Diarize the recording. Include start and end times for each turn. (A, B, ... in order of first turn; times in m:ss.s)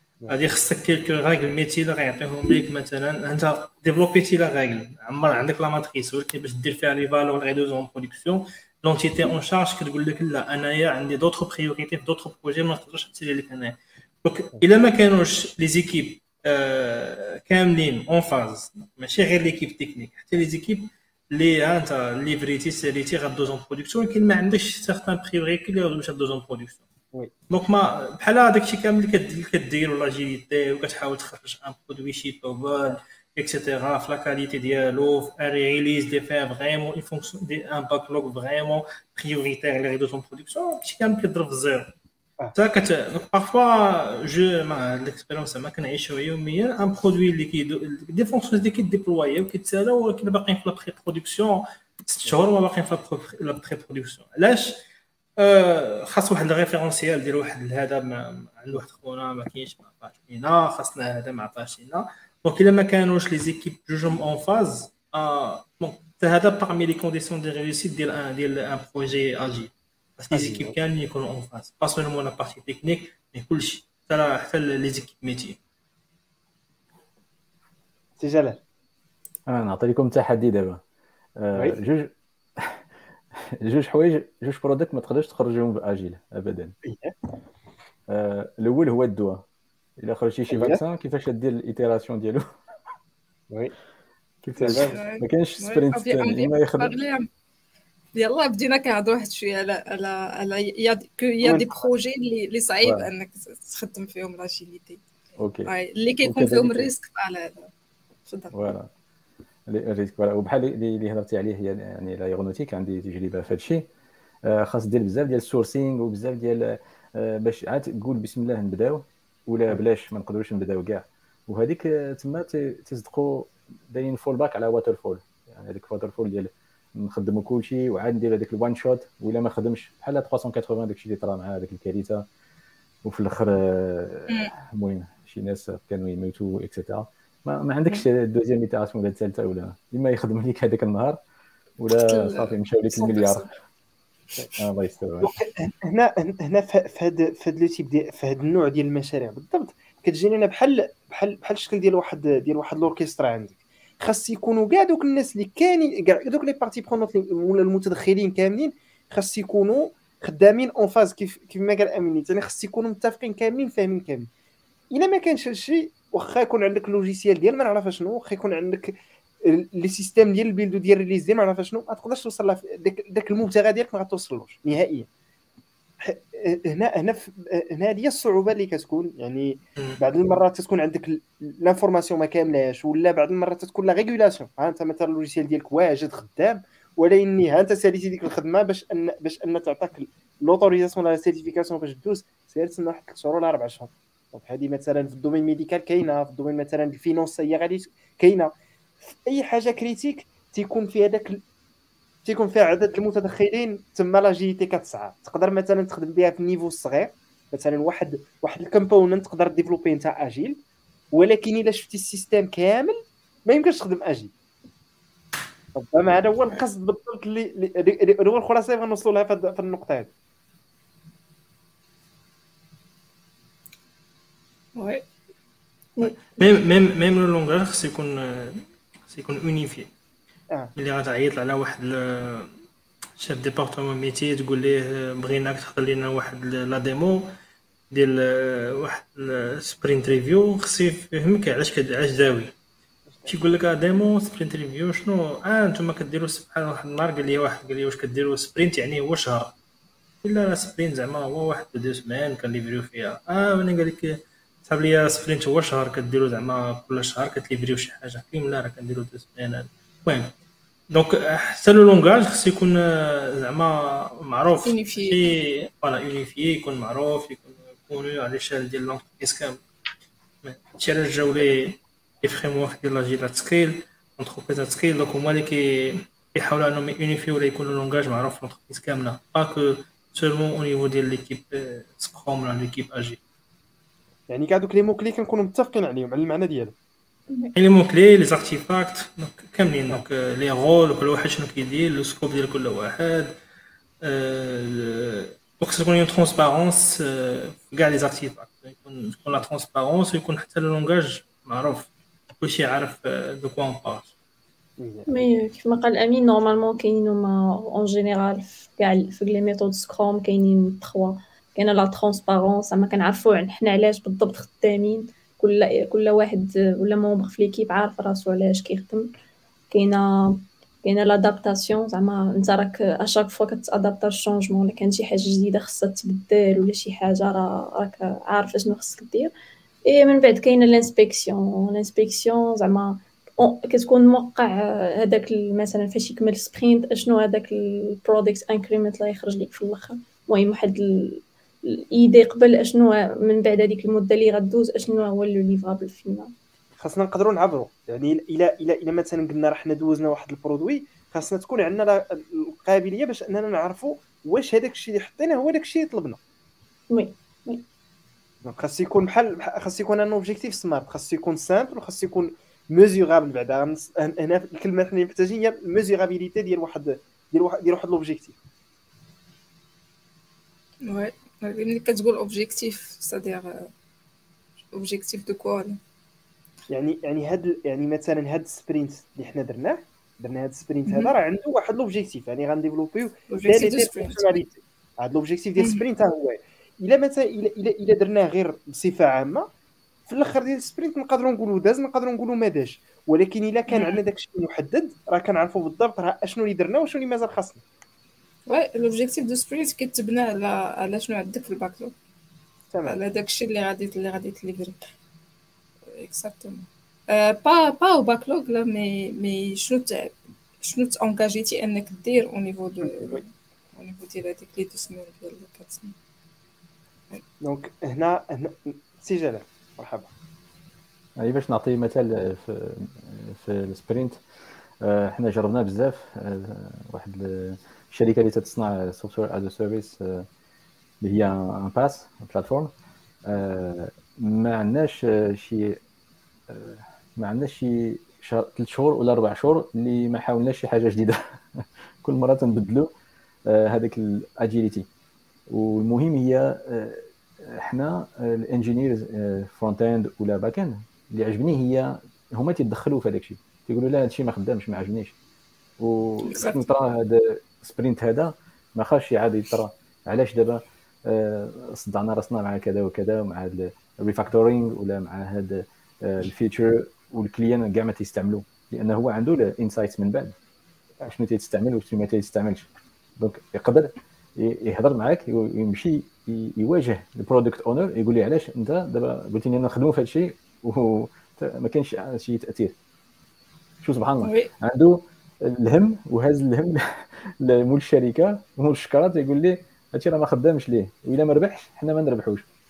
0:00.3-0:26.8 A
0:27.5-0:41.9 A
0:42.5-0:54.8 A
0:55.4-1:15.6 A
1:10.3-1:10.7 B
1:18.2-1:18.6 B
1:19.5-1:20.8 C
1:21.4-1:22.8 C
1:23.6-1:26.7 C
1:26.8-1:27.1 B
1:28.1-1:29.4 C
1:30.0-1:32.4 C
1:30.5-1:30.8 B
1:34.4-1:36.9 C
1:34.6-1:35.0 B
1:34.8-1:37.3 D
1:38.1-1:45.0 D
1:41.4-1:41.9 B
1:42.8-1:43.1 C
1:45.4-1:45.7 C
1:45.6-1:47.7 D
1:46.2-1:46.9 C
1:48.2-1:48.5 D
1:48.5-1:48.9 C
1:49.7-1:53.9 C
1:54.4-2:12.2 C
2:13.0-2:21.2 C
2:21.8-2:23.5 C
2:22.0-2:23.5 D
2:24.6-2:25.3 C
2:25.2-2:44.3 B
2:44.9-2:55.1 B
2:56.0-3:18.5 B
3:19.2-3:21.4 B
3:22.2-3:30.6 B
3:31.1-3:34.3 B
3:35.7-3:40.1 B
3:44.7-3:45.0 D
3:46.0-3:46.4 E
3:46.4-3:49.9 A
3:50.8-3:52.5 A
3:53.2-3:57.2 A
3:57.9-4:02.5 A
4:03.1-4:03.4 B
4:03.3-4:09.5 A
4:10.2-4:20.3 A
4:20.9-4:29.6 A
4:24.6-4:25.2 D
4:30.4-4:43.2 A
4:44.3-4:46.7 B
4:47.5-4:53.3 A
4:54.0-5:01.9 A
5:02.4-5:04.1 A
5:04.8-5:05.1 B
5:05.1-5:19.1 E
5:19.7-5:29.3 E
5:29.8-5:46.3 E
5:46.8-5:56.2 B
5:56.9-5:57.6 E
5:58.4-6:08.3 B
6:10.8-6:13.7 D
6:14.7-6:15.8 D
6:16.7-6:29.5 B
6:20.9-6:21.1 D
6:23.3-6:24.4 D
6:30.1-6:37.6 B
6:33.7-6:34.0 D
6:38.5-6:41.9 D
6:42.7-6:43.0 B
6:42.8-6:44.8 D
6:45.9-6:55.9 D
6:52.8-6:53.2 B
6:57.4-7:00.1 B
7:01.2-7:04.2 C
7:04.8-7:10.2 C
7:11.0-7:12.7 C
7:13.2-7:15.8 C
7:16.5-7:22.9 C
7:23.5-7:24.9 C
7:25.5-7:35.1 C
7:35.8-7:50.3 C
7:36.2-7:36.7 D
7:51.1-8:02.7 C
8:03.8-8:12.4 C
8:04.2-8:04.5 D